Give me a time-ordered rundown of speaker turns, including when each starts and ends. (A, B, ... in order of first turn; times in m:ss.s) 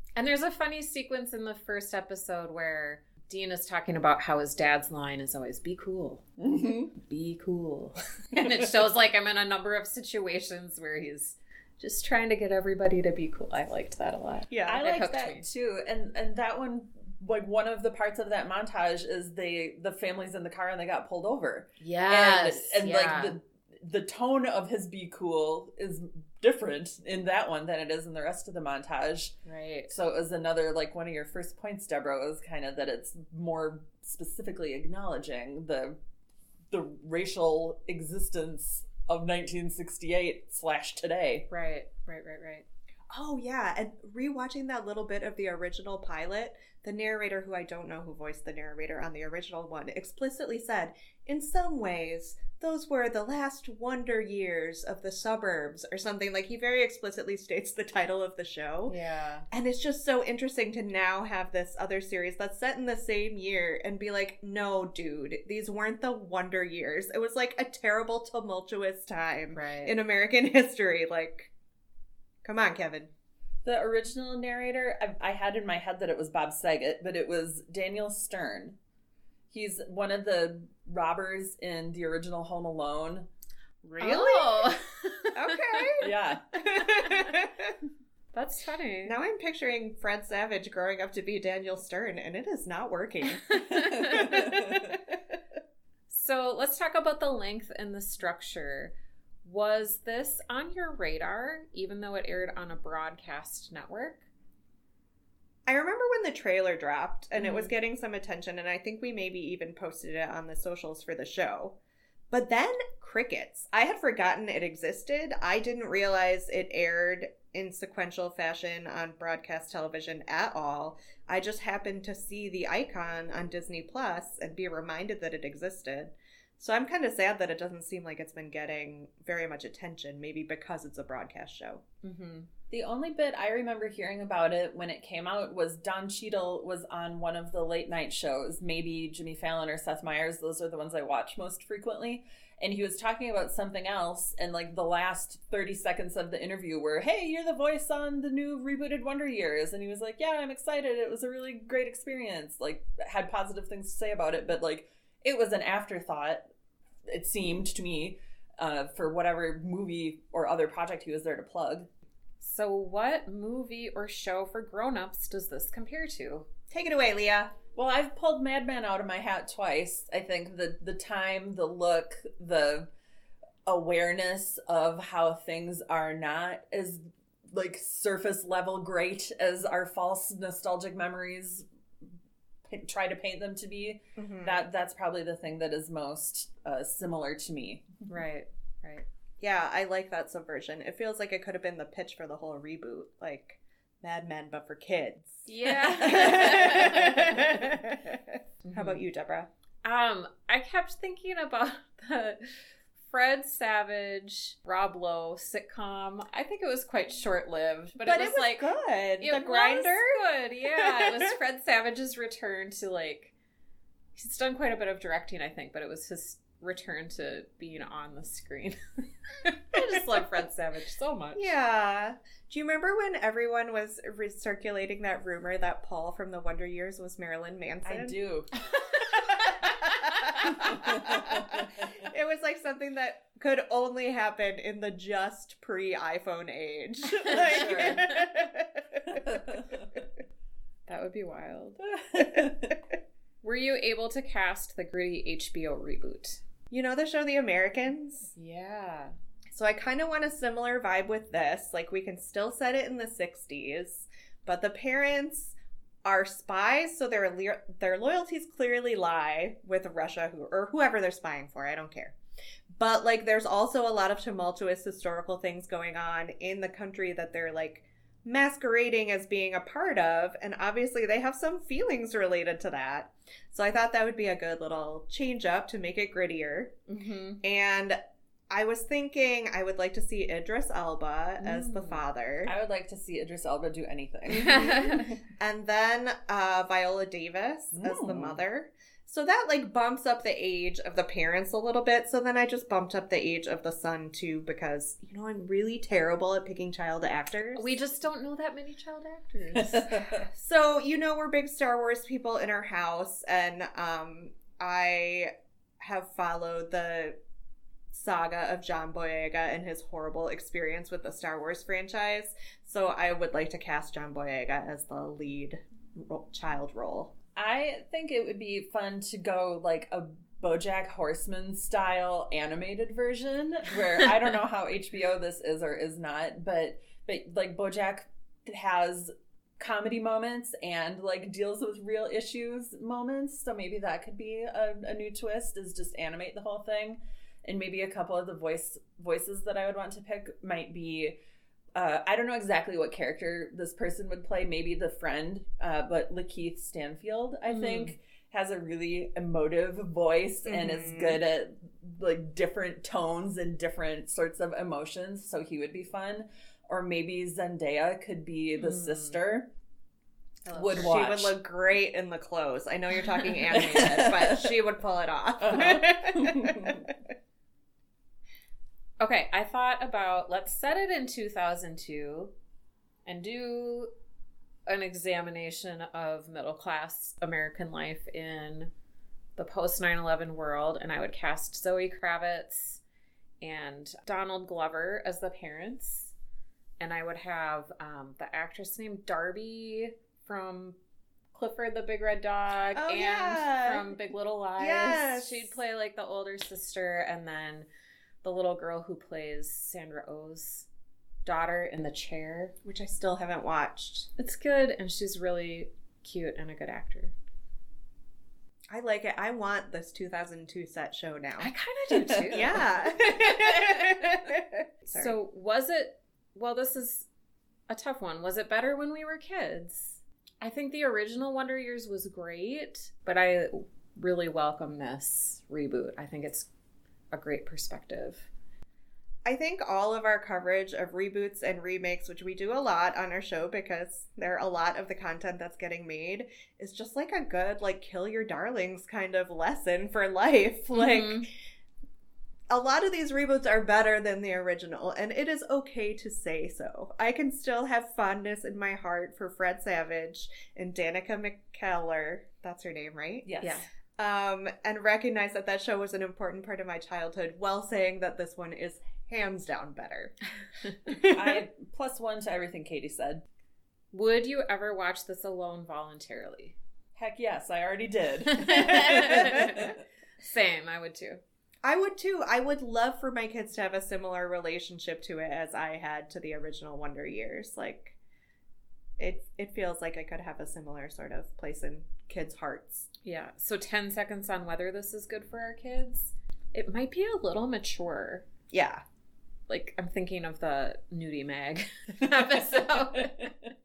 0:00.2-0:06.3 A
0:06.4-0:06.9 B
0:06.9-0:15.4 A
0:14.5-0:14.8 C
0:14.6-0:29.3 B
0:21.8-0:23.3 A
0:29.4-0:29.9 A
0:29.9-0:36.0 B
0:36.7-0:41.5 B
0:41.5-0:42.6 A
0:43.1-0:58.9 C
0:58.9-0:59.4 A
0:59.5-1:11.5 C
1:09.5-1:09.9 A
1:12.4-1:13.1 C
1:13.6-1:18.8 B
1:19.5-1:23.3 B
1:23.8-1:24.7 C
1:24.0-1:25.9 A
1:25.3-1:27.7 C
1:26.0-1:26.6 B
1:27.0-1:27.3 A
1:28.3-1:29.2 A
1:29.0-1:35.0 C
1:33.5-1:34.2 A
1:33.9-1:34.9 B
1:36.1-1:44.2 A
1:45.6-1:51.8 C
1:47.4-1:47.7 A
1:52.3-2:11.8 C
2:12.0-2:12.5 A
2:12.7-2:36.4 B
2:37.1-2:41.9 B
2:42.4-2:46.5 A
2:46.7-2:47.5 C
2:47.7-2:52.9 B
2:53.6-3:01.6 B
3:02.6-3:08.0 B
3:04.2-3:04.6 C
3:08.1-3:09.0 A
3:09.4-3:19.5 C
3:15.4-3:17.8 A
3:18.6-3:19.0 A
3:19.8-3:33.3 A
3:28.0-3:31.3 C
3:34.2-3:38.8 A
3:39.3-3:41.5 A
3:41.4-3:48.2 C
3:47.8-3:48.5 B
3:48.6-3:50.7 A
3:49.2-3:59.4 C
3:50.6-3:51.9 B
3:57.2-3:58.1 A
3:57.4-3:58.0 B
3:59.1-3:59.9 B
4:00.9-4:01.8 A
4:01.9-4:02.7 B
4:03.4-4:06.4 A
4:06.7-4:08.3 C
4:08.3-4:09.1 A
4:09.5-4:22.2 C
4:22.7-4:36.8 C
4:36.9-4:37.4 A
4:37.4-4:38.0 C
4:38.5-4:42.5 C
4:41.4-4:42.0 A
4:42.4-4:45.0 B
4:44.3-4:57.8 C
4:44.4-4:45.1 A
4:47.7-4:48.4 B
4:57.6-5:00.1 A
4:59.5-5:00.2 B
5:00.3-5:07.2 C
5:07.9-5:17.1 C
5:17.4-5:41.2 B
5:41.7-5:59.5 B
5:47.5-5:47.9 A
5:50.4-5:51.2 C
5:58.6-5:59.2 A
6:00.4-6:01.0 A
6:00.5-6:01.3 B
6:00.7-6:06.9 C
6:03.5-6:04.5 B
6:05.4-6:06.9 B
6:09.0-6:12.3 A
6:13.0-6:13.9 A
6:14.7-6:18.7 A
6:19.4-6:22.8 A
6:23.4-6:26.1 A
6:26.8-6:30.8 A
6:31.3-6:37.7 A
6:32.7-6:33.8 C
6:34.6-6:35.5 C
6:38.2-6:40.7 A
6:41.2-6:42.5 A
6:42.6-6:44.1 C
6:44.2-6:47.1 A
6:48.7-6:51.5 C
6:51.4-6:54.1 A
6:52.0-6:52.6 B
6:52.3-6:55.2 C
6:54.9-6:57.1 A
6:57.7-7:06.5 A
7:07.1-7:08.3 A
7:09.2-7:21.3 C
7:20.7-7:21.3 A
7:22.5-7:33.3 C
7:33.2-7:33.6 B
7:33.4-7:33.7 A
7:34.0-7:40.1 C
7:40.9-7:41.4 C
7:41.0-7:43.2 B
7:43.9-7:46.6 A
7:47.0-7:49.8 B
7:48.2-7:51.2 A
7:51.6-7:58.0 C
7:59.0-8:02.9 C
8:03.0-8:08.2 A
8:08.5-8:08.8 C
8:09.5-8:13.3 A
8:13.0-8:13.3 B